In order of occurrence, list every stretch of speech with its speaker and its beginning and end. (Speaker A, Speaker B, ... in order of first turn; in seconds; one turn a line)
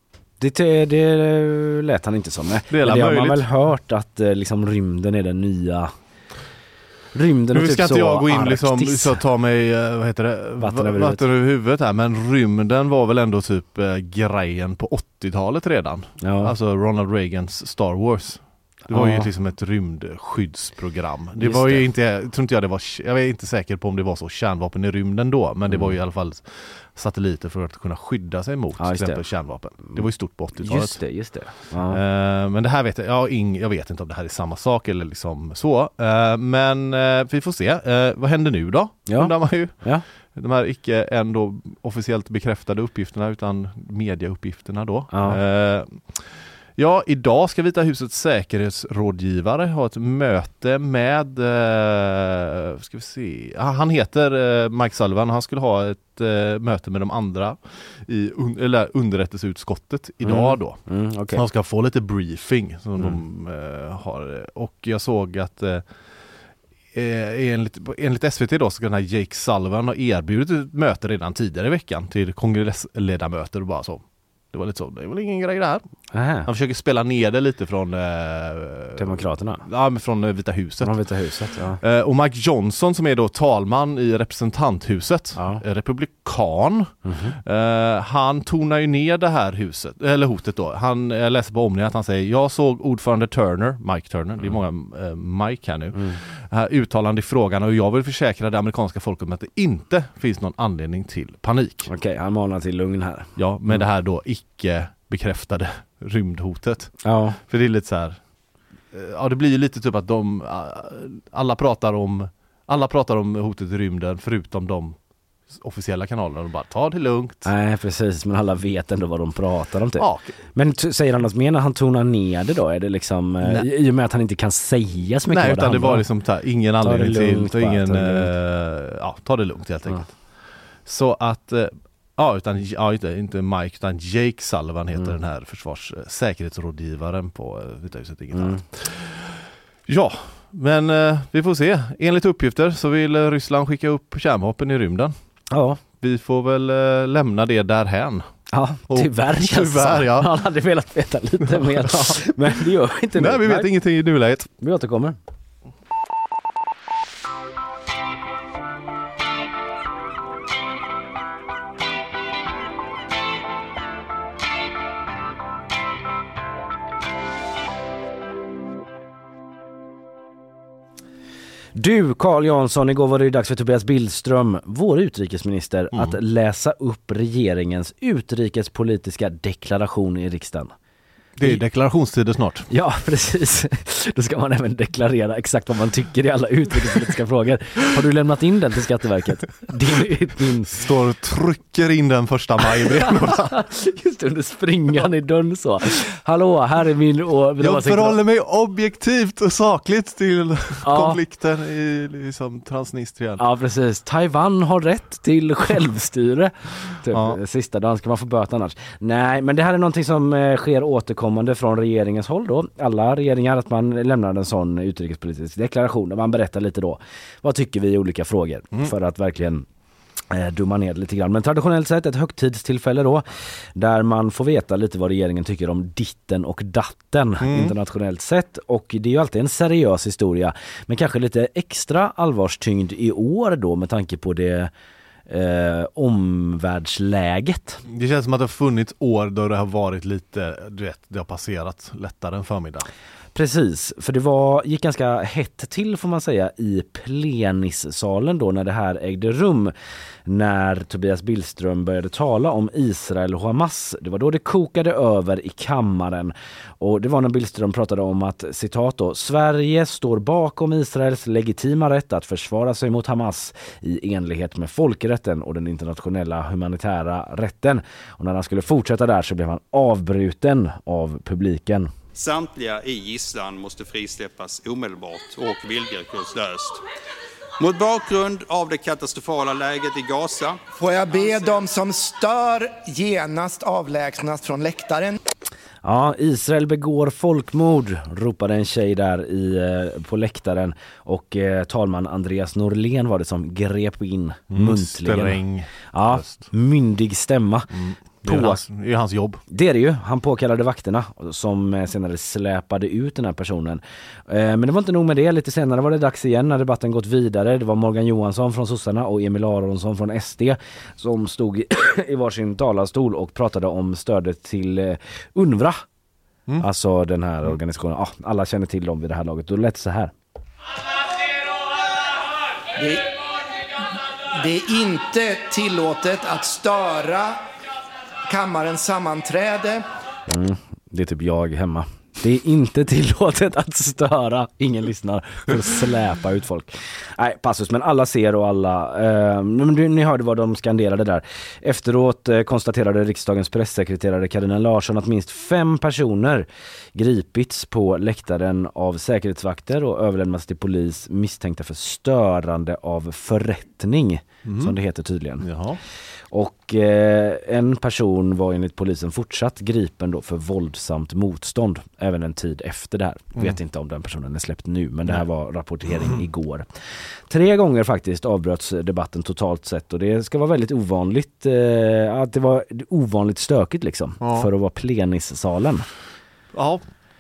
Speaker A: 0.4-5.9
Speaker B: 2.7-3.5
Speaker A: 7.1-9.2
Speaker B: 7.5-31.0
Speaker A: 10.6-11.2
Speaker A: 16.2-16.6
Speaker A: 18.9-19.3
Speaker A: 21.4-21.9
Speaker A: 25.7-26.0
Speaker A: 28.8-29.2
Speaker A: 30.6-32.0
Speaker B: 31.7-60.8
Speaker A: 39.1-40.0
Speaker A: 45.1-45.4
Speaker A: 60.2-61.4
Speaker B: 61.3-65.8
Speaker B: 66.9-74.0
Speaker B: 74.5-75.8
Speaker A: 76.1-76.5
Speaker B: 76.5-101.9
Speaker A: 79.0-79.6
Speaker A: 80.8-81.8
Speaker A: 85.4-85.6
Speaker A: 87.0-87.4
Speaker A: 95.9-96.2
Speaker A: 101.9-103.8
Speaker B: 103.4-108.2
Speaker A: 107.0-107.4
Speaker B: 108.9-115.0
Speaker B: 115.5-117.5
Speaker A: 117.5-126.0
Speaker B: 120.0-120.4
Speaker B: 125.3-145.1
Speaker A: 126.8-128.3
Speaker A: 138.3-138.6
Speaker A: 145.5-145.8
Speaker B: 146.0-148.3
Speaker A: 148.5-153.7
Speaker B: 148.9-150.3
Speaker B: 151.4-152.3
Speaker B: 153.2-154.5
Speaker A: 154.6-155.2
Speaker A: 171.8-180.7
Speaker B: 181.4-182.7
Speaker A: 182.7-190.8
Speaker B: 190.7-193.6
Speaker A: 192.8-198.2
Speaker B: 197.6-203.4
Speaker A: 200.8-201.2
Speaker A: 203.4-219.7
Speaker B: 207.1-207.4
Speaker A: 220.3-223.2
Speaker A: 223.8-234.7
Speaker B: 227.4-227.8
Speaker A: 235.3-237.8
Speaker B: 237.9-242.9
Speaker A: 243.3-249.7
Speaker A: 250.3-271.9
Speaker C: 272.2-276.8
Speaker C: 277.6-280.6
Speaker D: 280.8-285.2
Speaker A: 285.8-295.4
Speaker B: 294.5-296.5
Speaker A: 295.9-297.7
Speaker B: 297.7-299.4
Speaker A: 298.2-298.6
Speaker A: 299.5-315.8
Speaker A: 316.6-320.1
Speaker D: 322.8-323.0
Speaker D: 324.4-327.4
Speaker D: 328.3-329.8
Speaker A: 330.3-355.5
Speaker B: 354.4-354.8
Speaker B: 355.4-355.8
Speaker A: 356.3-366.7
Speaker A: 367.3-375.9
Speaker B: 374.2-374.5
Speaker B: 376.5-376.8